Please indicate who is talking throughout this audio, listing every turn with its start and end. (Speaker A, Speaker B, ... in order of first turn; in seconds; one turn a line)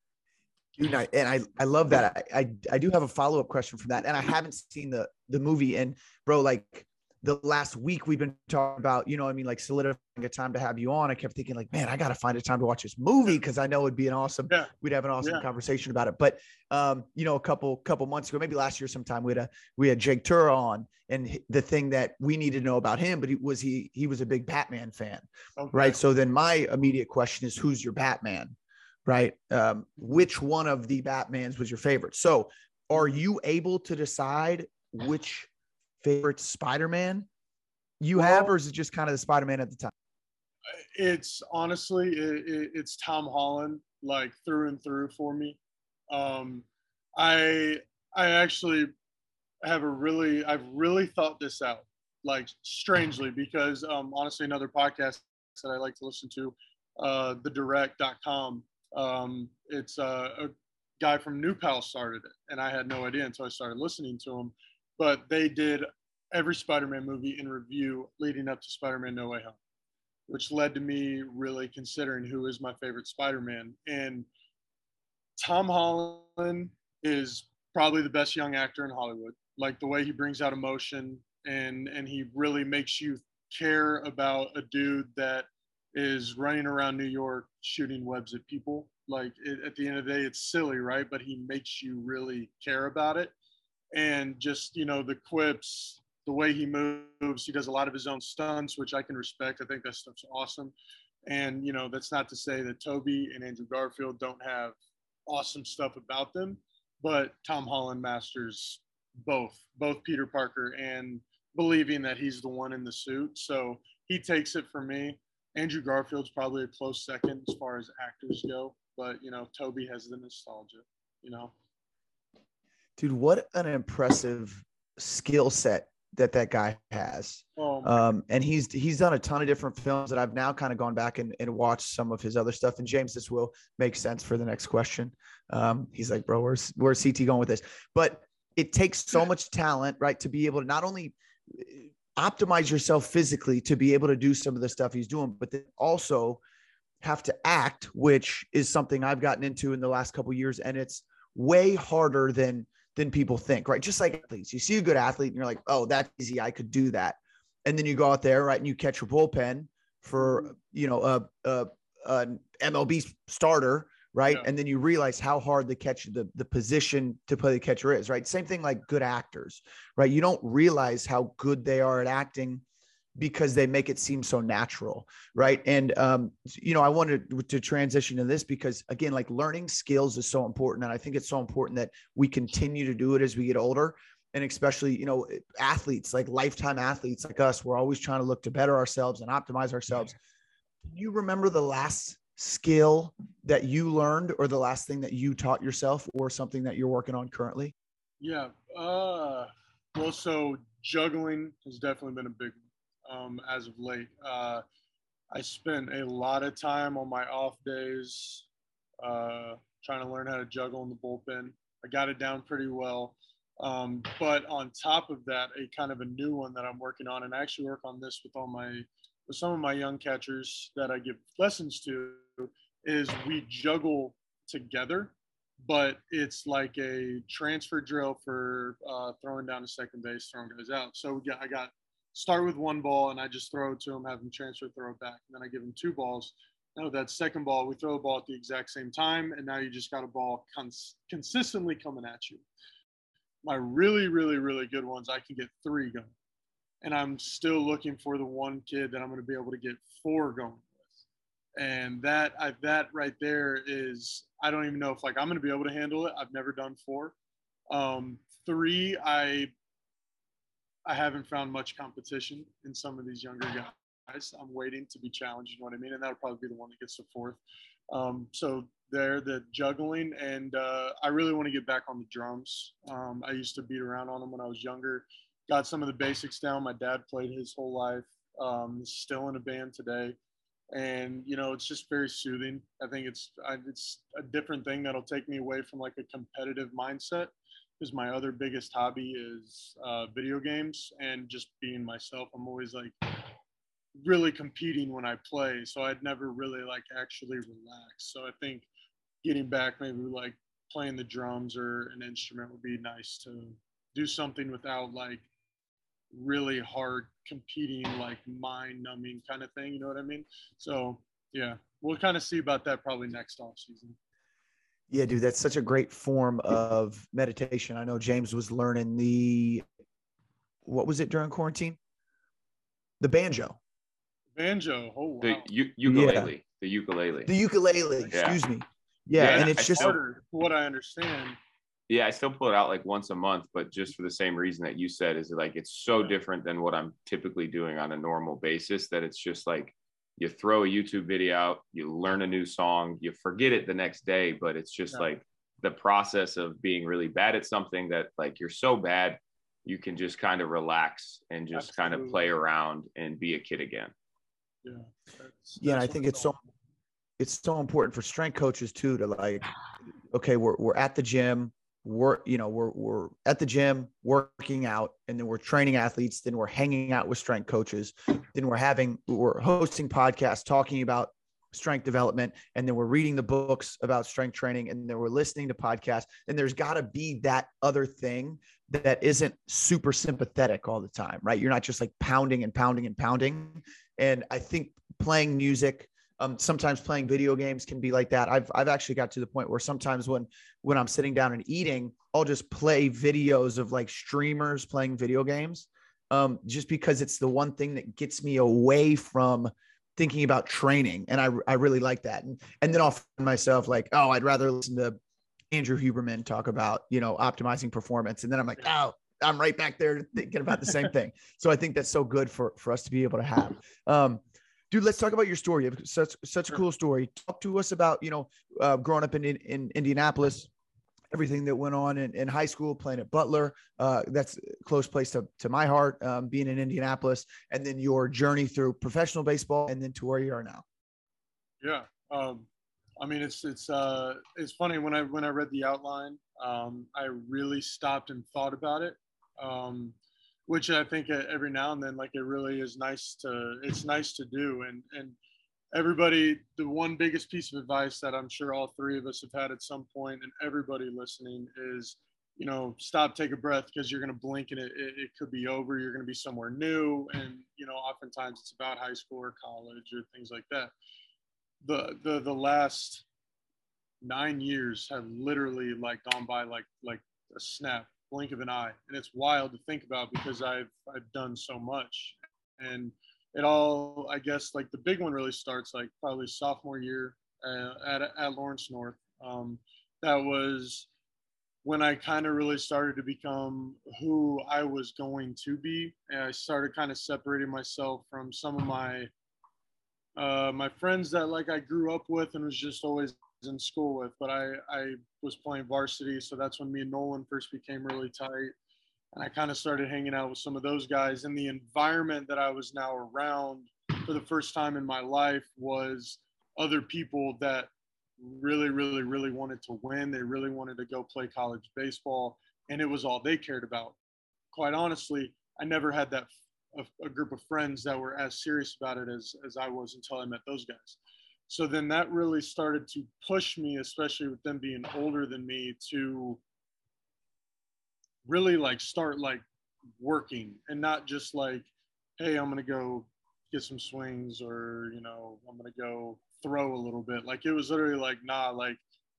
Speaker A: 0.8-28.6
Speaker B: 14.5-15.4
Speaker B: 25.6-26.0
Speaker A: 29.1-35.5
Speaker A: 36.0-37.3
Speaker A: 38.0-39.9
Speaker B: 38.2-38.5
Speaker B: 40.8-45.6
Speaker B: 46.1-46.7
Speaker B: 47.2-48.9
Speaker B: 49.6-69.6
Speaker B: 70.3-74.3
Speaker B: 75.4-93.3
Speaker B: 93.9-100.7
Speaker B: 101.3-104.8
Speaker B: 105.3-121.5
Speaker A: 123.0-146.4
Speaker B: 127.6-128.0
Speaker A: 147.0-172.6
Speaker B: 160.2-160.5
Speaker A: 173.2-190.2
Speaker A: 190.9-197.7
Speaker B: 198.2-204.6
Speaker B: 205.3-208.5
Speaker B: 209.0-242.4
Speaker B: 243.4-246.1
Speaker B: 246.8-250.7
Speaker B: 251.6-257.1
Speaker B: 257.7-259.5
Speaker B: 260.9-280.2
Speaker B: 280.7-293.3
Speaker B: 294.0-298.7
Speaker B: 299.2-305.2
Speaker B: 306.1-314.0
Speaker A: 314.9-319.6
Speaker A: 320.7-321.8
Speaker A: 323.0-323.6
Speaker B: 324.4-325.5
Speaker C: 325.2-327.3
Speaker A: 325.9-326.3
Speaker A: 327.3-329.9
Speaker C: 328.1-328.4
Speaker C: 329.2-330.0
Speaker B: 329.2-331.4
Speaker C: 331.9-353.9
Speaker B: 351.5-352.3
Speaker B: 354.6-356.4
Speaker A: 355.6-356.4
Speaker A: 357.2-359.5
Speaker A: 360.1-405.0
Speaker A: 405.5-420.5
Speaker A: 421.1-430.6
Speaker B: 431.6-432.5
Speaker B: 433.0-440.0
Speaker B: 440.5-445.2
Speaker B: 445.7-460.7
Speaker B: 461.6-463.1
Speaker B: 464.0-480.9
Speaker B: 481.6-489.1
Speaker B: 490.2-498.5
Speaker B: 499.1-514.0
Speaker B: 514.5-526.4
Speaker B: 528.2-529.4
Speaker B: 530.0-538.8